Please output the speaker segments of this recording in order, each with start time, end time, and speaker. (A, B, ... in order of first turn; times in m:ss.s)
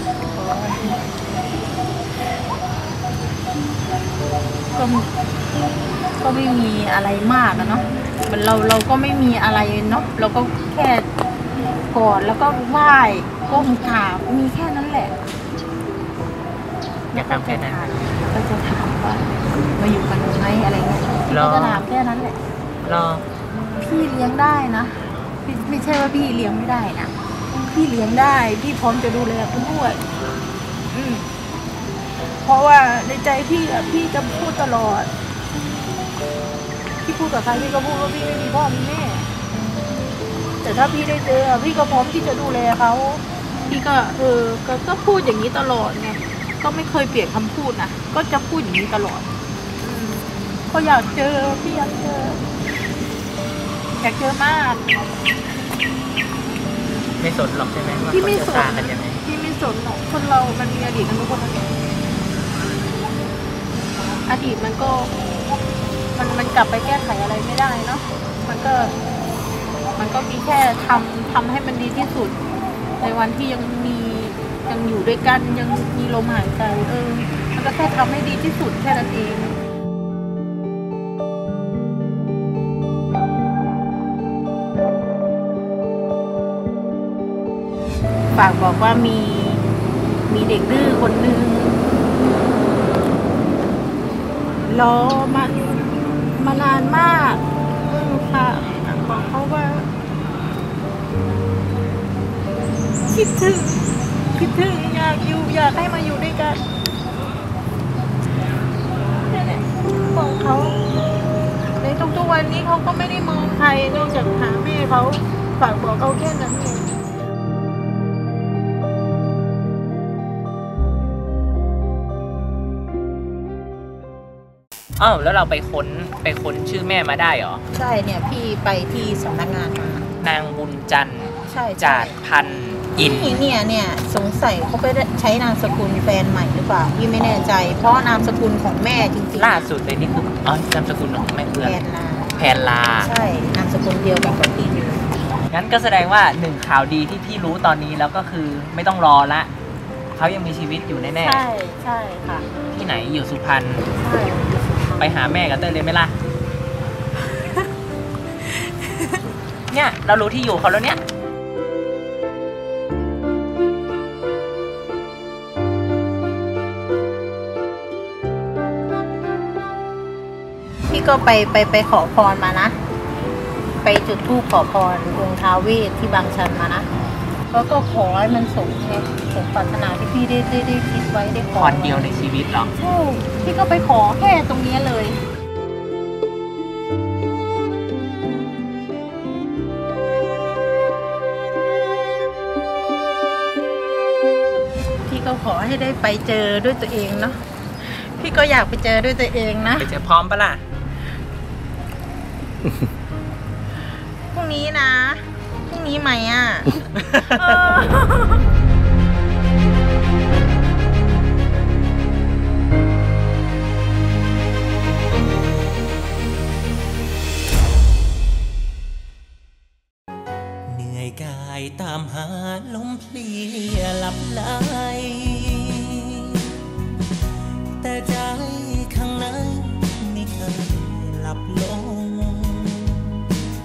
0:00.3-0:01.2 A
0:04.7-0:05.1 A
0:06.2-0:11.1 A
0:11.9-0:15.2 A
0:17.1-0:22.4 A
0:17.1-0:18.1 B
0:21.3-0:21.8 B
0:22.8-0:23.2 B
0:23.7-0:27.1 A
0:27.7-0:30.0 A
0:30.9-0:31.3 A
0:32.4-0:35.1 A
0:37.0-0:39.3 A
0:40.6-0:49.3 A
0:49.8-0:52.4 A
0:54.0-0:54.8 A
0:57.2-0:59.2 B
0:58.1-1:01.7 A
1:04.0-1:05.1 A
1:06.1-1:09.0 A
1:10.0-1:12.4 A
1:13.0-1:19.6 A
1:28.3-1:29.6 A
1:30.3-1:31.8 A
1:34.6-1:35.8 A
1:36.4-1:39.9 A
1:43.1-1:46.6 A
1:49.2-1:50.8 A
1:51.8-1:56.9 A
2:05.0-2:07.6 B
2:07.7-2:10.0 A
2:10.2-2:13.4 B
2:11.5-2:12.2 A
2:13.0-2:19.7 A
2:19.3-2:21.8 B
2:21.6-2:22.4 A
2:22.4-2:23.1 B
2:23.0-2:25.1 A
2:25.5-2:29.5 B
2:30.1-2:31.4 B
2:31.2-2:32.4 A
2:32.7-2:33.8 B
2:34.0-2:35.1 A
2:35.0-2:36.1 B
2:39.7-2:41.0 B
2:50.9-2:52.8 A
2:53.8-2:56.9 A
2:57.5-3:02.1 A
3:01.6-3:02.7 B
3:02.7-3:05.2 A
3:15.0-3:19.9 A
3:19.8-3:20.6 B
3:24.3-3:28.4 A
3:26.9-3:27.8 B
3:40.7-3:46.6 C
3:47.8-3:53.2 C